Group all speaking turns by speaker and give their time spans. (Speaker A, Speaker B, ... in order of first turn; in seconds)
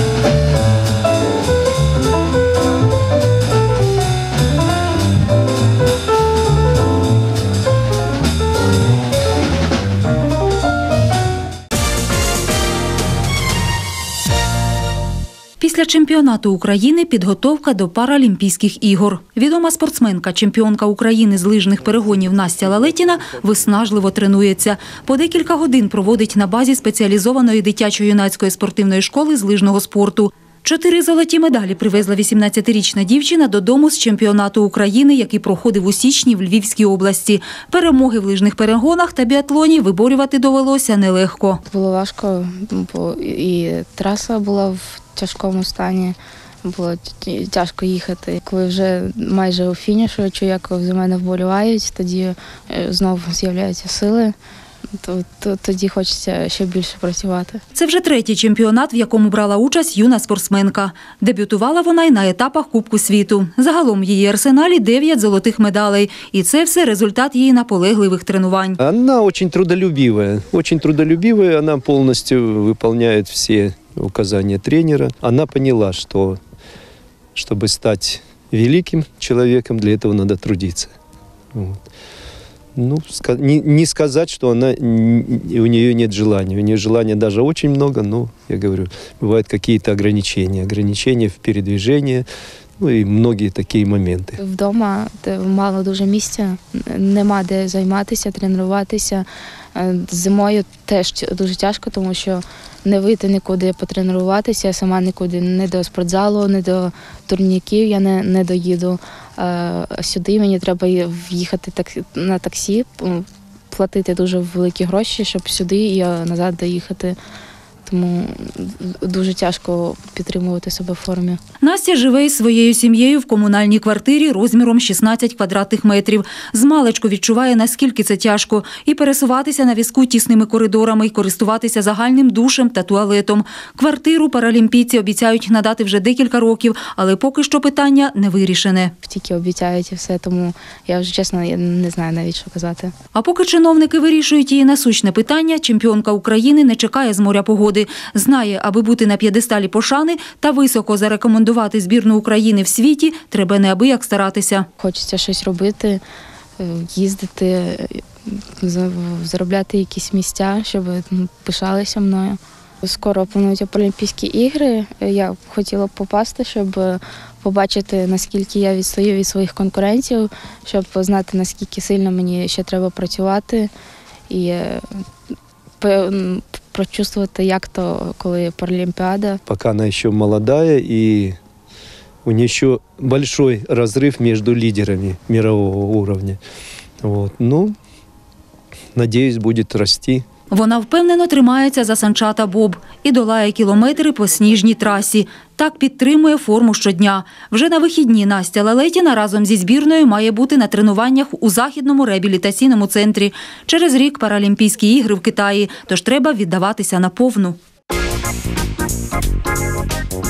Speaker A: 15.6-41.6, 57.8-68.8, 121.6-138.9, 143.1-154.7, 190.5-207.6
Speaker B: 41.7-54.4, 55.0-57.6, 94.4-117.2, 117.9-121.4, 139.0-142.9, 154.8-156.0, 156.6-158.0, 158.6-173.7, 174.3-174.8, 175.8-179.4
Speaker C: 68.8-76.4, 77.4-81.0, 81.5-81.8, 82.8-92.3, 92.8-94.4, 179.5-181.4, 182.2-186.4, 187.0-187.8, 188.9-190.3